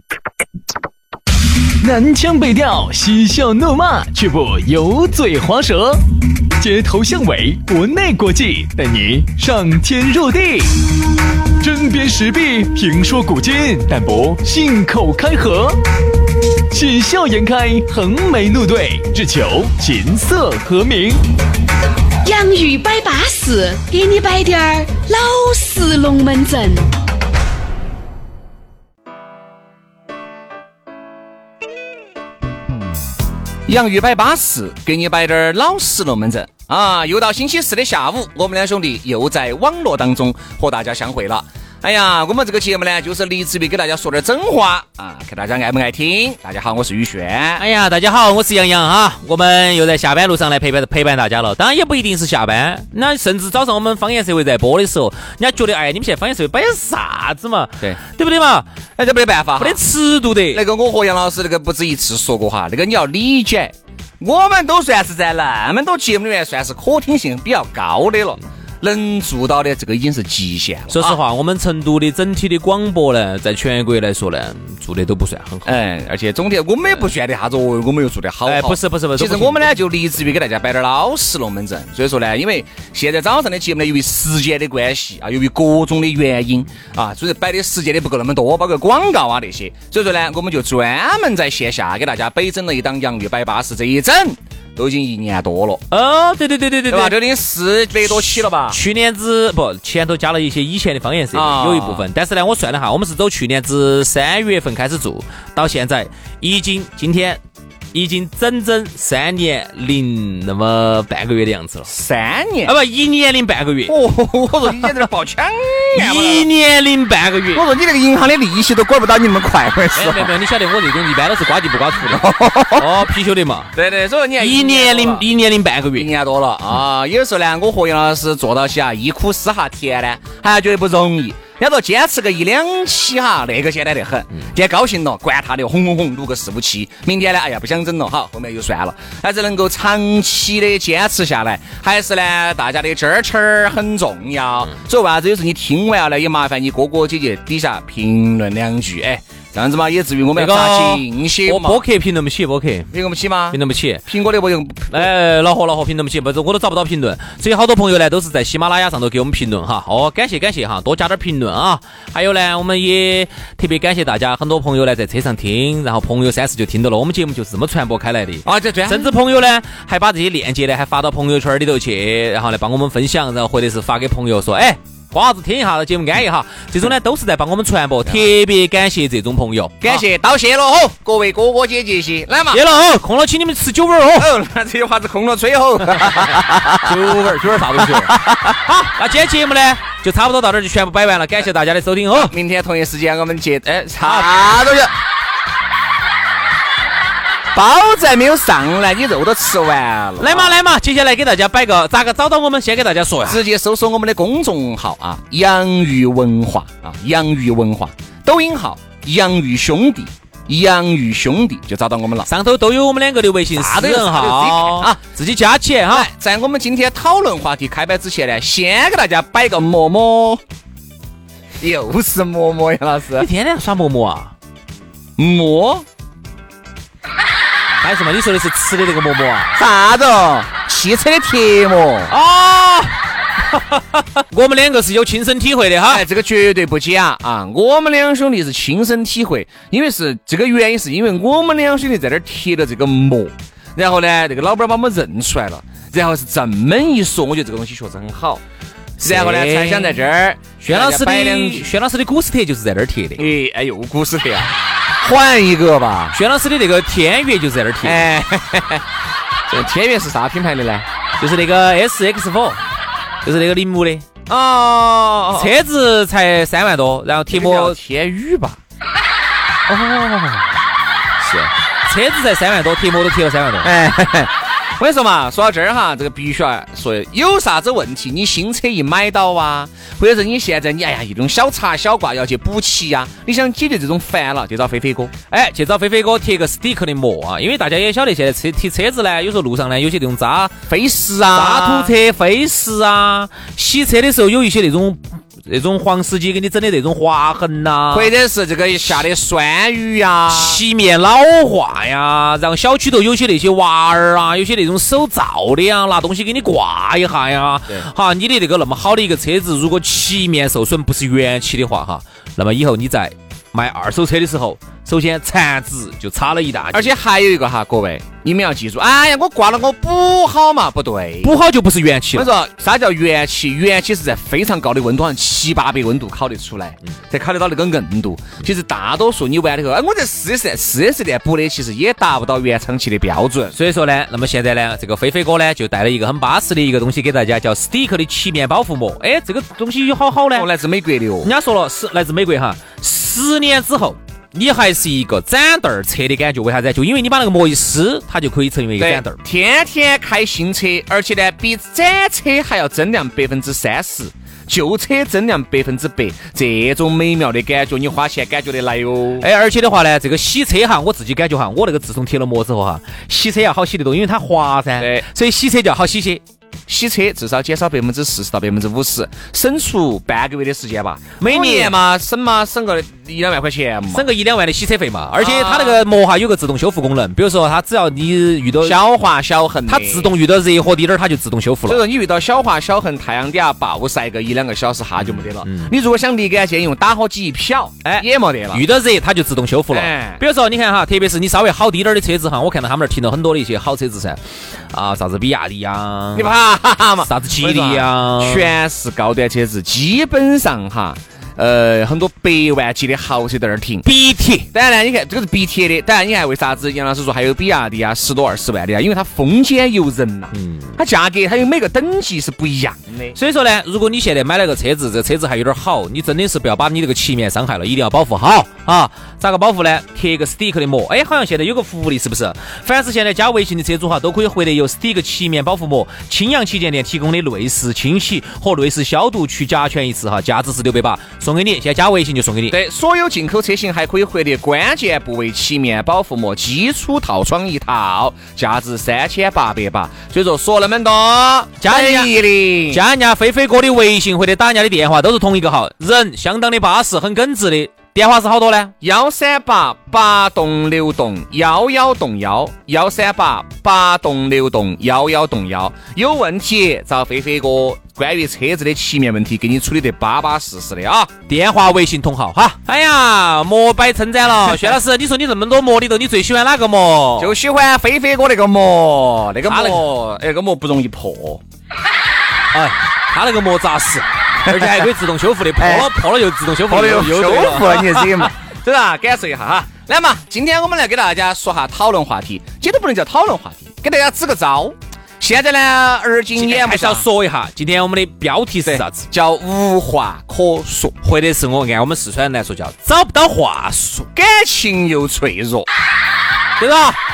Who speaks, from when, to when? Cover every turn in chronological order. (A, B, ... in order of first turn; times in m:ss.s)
0:01.8-0:06.0 A
0:06.6-0:10.8 A
0:11.6-0:15.8 A
0:16.7-0:21.2 A
0:22.2-0:26.9 B
0:33.6-0:47.6 C
0:47.6-0:58.7 D
0:59.0-0:59.8 C
0:59.6-1:00.6 D
1:00.5-1:11.2 C
1:10.9-1:15.8 D
1:15.6-1:35.8 C
1:18.4-1:19.7 D
1:35.9-1:37.2 D
1:36.9-1:38.8 C
1:38.0-1:47.4 D
1:41.3-1:42.0 C
1:47.9-1:51.9 D
1:51.8-1:52.7 C
1:52.6-1:54.0 D
1:53.9-1:56.4 C
1:55.9-1:57.6 D
1:57.5-2:00.3 C
1:59.9-2:03.7 D
2:02.0-2:02.9 C
2:03.7-2:05.3 C
2:04.4-2:06.1 D
2:06.0-2:31.8 C
2:30.4-2:32.9 D
2:32.9-2:35.1 C
2:33.5-2:34.0 D
2:34.9-3:00.0 D
2:48.4-2:49.1 C
2:59.8-3:02.6 C
3:02.5-3:04.3 D
3:04.1-3:07.2 C
3:06.6-3:12.3 D
3:07.7-3:08.6 C
3:12.1-3:14.9 C
3:14.0-3:14.5 D
3:17.5-3:20.5 C
3:20.2-3:23.4 D
3:23.2-3:32.3 C
3:32.2-3:36.1 D
3:33.5-3:35.0 C
3:35.9-3:40.4 C
3:41.6-3:43.3 C
3:43.2-3:44.3 D
3:45.2-3:45.8 C
3:47.8-3:49.5 D
3:49.6-3:52.1 C
3:52.1-3:52.9 D
3:53.5-3:56.0 D
3:55.9-4:08.4 C
4:09.0-4:10.0 D
4:09.0-4:11.7 C
4:10.6-4:13.3 D
4:13.2-4:16.2 C
4:16.1-4:18.0 D
4:17.8-4:18.8 C
4:19.5-4:20.9 C
4:21.2-4:22.6 D
4:23.2-4:24.1 D
4:24.3-4:25.5 C
4:25.3-4:27.8 D
4:27.3-4:28.6 C
4:29.7-4:30.5 C
4:31.2-4:31.5 C
4:31.8-4:33.7 D
4:33.6-4:45.1 C
4:45.3-4:50.6 D
4:50.7-4:51.9 C
4:51.3-4:58.1 D
4:57.9-5:00.6 C
5:00.3-5:17.0 D
5:16.7-5:21.3 C
5:21.2-5:22.3 D
5:22.1-5:33.6 C
5:33.5-5:40.5 D
5:40.3-5:41.3 C
5:41.2-5:49.2 D
5:48.8-5:59.2 C
5:59.2-6:06.2 D
6:04.8-6:05.0 C
6:06.7-6:14.1 C
6:11.2-6:11.8 D
6:13.9-6:18.8 D
6:15.2-6:15.8 C
6:18.6-6:20.1 C
6:19.7-6:21.8 D
6:21.7-6:28.6 C
6:25.0-6:25.7 D
6:27.8-6:34.2 D
6:29.7-6:30.2 C
6:34.7-6:36.3 D
6:36.1-6:43.8 C
6:37.0-6:38.5 D
6:43.8-6:44.5 D
6:44.5-6:53.2 C
6:50.3-6:50.8 D
6:53.1-7:12.6 D
7:12.5-7:22.8 C
7:21.6-7:22.2 D
7:22.7-7:28.7 D
7:28.8-7:41.1 C
7:41.3-7:47.3 D
7:47.2-7:51.4 C
7:49.5-7:49.9 D
7:52.5-7:58.3 D
7:54.4-7:54.9 C
7:55.6-7:55.9 C
7:56.7-8:07.1 C
8:06.4-8:09.1 D
8:08.6-8:11.0 C
8:11.0-8:14.1 D
8:14.1-8:15.7 C
8:16.6-8:17.0 D